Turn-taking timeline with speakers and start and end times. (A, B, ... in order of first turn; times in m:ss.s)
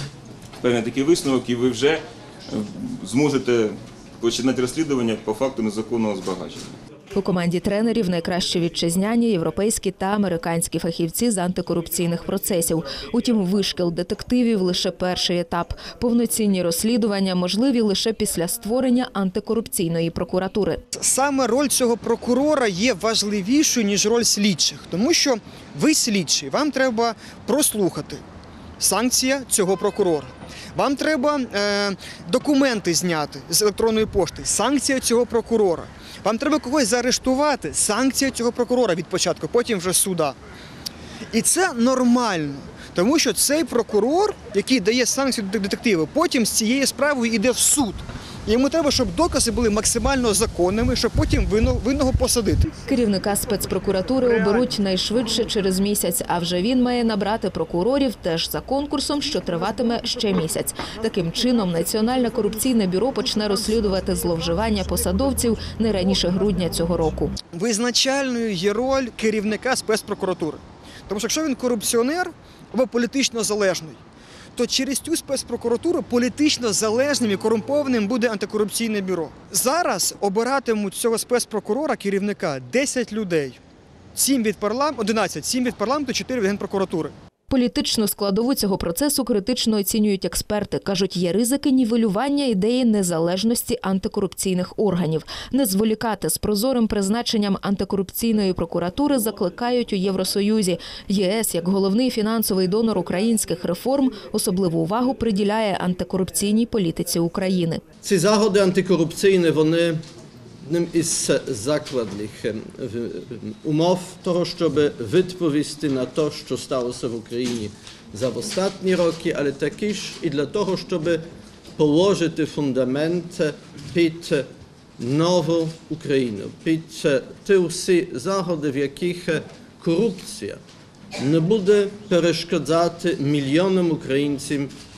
0:00.6-0:06.8 A
0:07.1-0:20.8 B
0:20.9-0:28.2 C
0:28.8-0:40.4 C
0:41.3-0:52.8 C
0:52.8-1:07.3 B
0:54.2-0:54.7 C
1:07.5-1:14.0 C
1:14.5-1:23.6 C
1:24.1-1:27.1 C
1:27.5-1:47.8 B
1:48.0-1:50.0 D
1:50.6-2:01.2 D
2:01.8-2:04.5 D
2:05.0-2:10.6 D
2:11.2-2:14.7 D